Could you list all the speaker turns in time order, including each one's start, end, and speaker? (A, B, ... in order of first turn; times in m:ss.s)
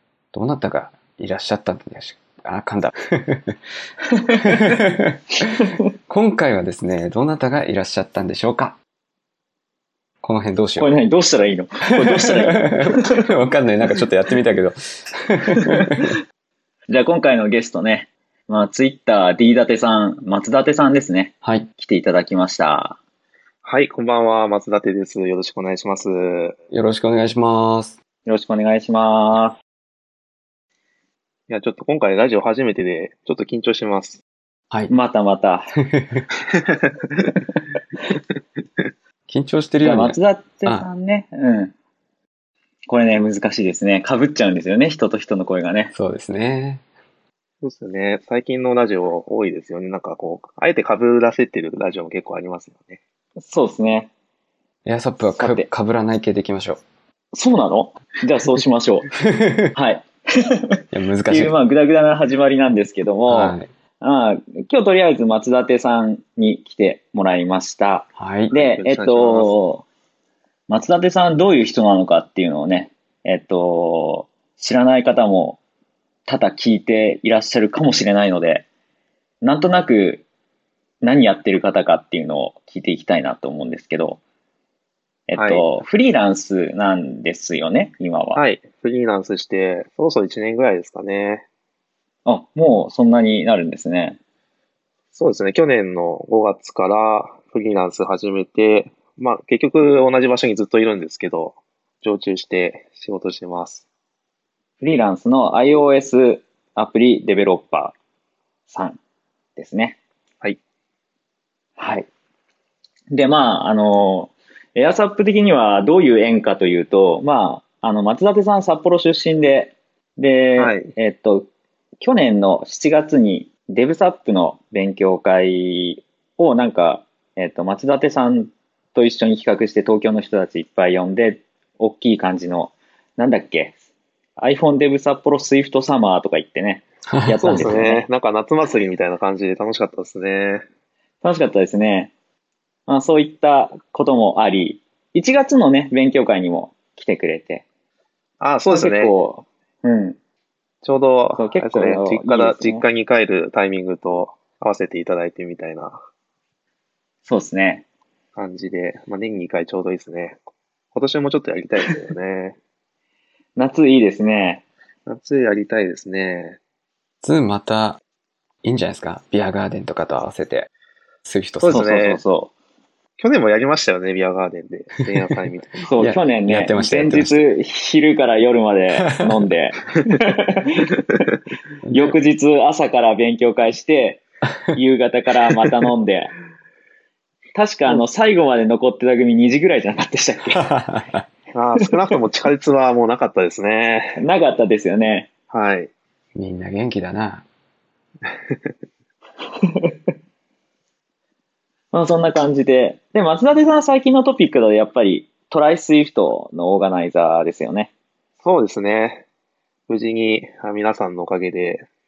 0:00.3-0:03.5 A
0:04.4-0:05.2 A
0:06.1-0:08.8 A
0:10.2-0:10.9 A
0:10.8-0:13.0 B
0:12.0-0:16.1 A
0:15.7-0:16.0 B
0:16.9-0:23.0 B
0:21.4-0:21.7 A
0:23.6-0:26.6 C
0:26.7-0:28.0 A
0:28.2-0:29.6 B
0:31.5-0:34.2 C
0:34.9-0:35.7 B
0:35.8-0:36.3 A
0:36.6-0:37.3 C
0:39.3-0:40.9 A
0:39.8-0:41.7 B
0:42.9-0:45.9 B
0:45.9-0:46.8 A
0:47.6-0:53.0 C
0:53.4-0:54.1 B
0:54.8-0:56.8 A
0:55.2-0:55.7 B
0:57.3-0:59.1 B
0:59.1-0:59.7 A
0:59.7-1:09.8 B
1:00.9-1:01.6 A
1:03.3-1:03.7 A
1:08.2-1:08.5 A
1:08.5-1:09.5 C
1:10.7-1:15.6 B
1:16.3-1:18.6 B
1:19.4-1:20.2 B
1:21.0-1:24.2 B
1:25.3-1:28.4 B
1:25.3-1:25.6 C
1:28.3-1:31.4 C
1:32.2-1:34.2 B
1:35.1-1:43.8 C
1:44.8-1:47.9 B
1:48.7-1:49.0 B
1:49.6-1:50.0 B
1:51.8-1:52.1 B
1:53.1-2:01.5 B
2:00.6-2:00.9 C
2:02.0-2:13.8 B
2:14.4-2:18.0 B
2:17.3-2:17.6 A
2:17.4-2:20.6 C
2:21.2-2:22.1 B
2:22.9-2:27.6 B
2:28.4-2:29.1 C
2:28.7-2:30.2 B
2:30.8-2:36.0 C
2:31.4-2:32.8 B
2:37.2-2:37.8 B
2:38.3-2:40.4 C
2:40.9-2:42.6 C
2:43.6-2:44.6 B
2:45.0-2:46.6 C
2:47.2-2:48.0 A
2:48.6-2:50.7 A
2:51.2-2:51.8 A
2:51.6-2:52.2 C
2:51.7-2:52.5 B
2:53.2-2:55.6 C
2:55.8-2:57.4 A
2:55.8-3:01.2 B
3:01.8-3:02.1 A
3:01.9-3:04.2 B
3:04.7-3:06.3 B
3:07.5-3:10.6 B
3:10.6-3:11.1 A
3:11.5-3:14.2 C
3:14.2-3:15.3 B
3:15.5-3:15.9 C
3:16.3-3:17.4 A
3:18.3-3:18.6 C
3:19.6-3:19.9 B
3:21.9-3:27.9 B
3:28.4-3:29.2 C
3:29.9-3:31.8 C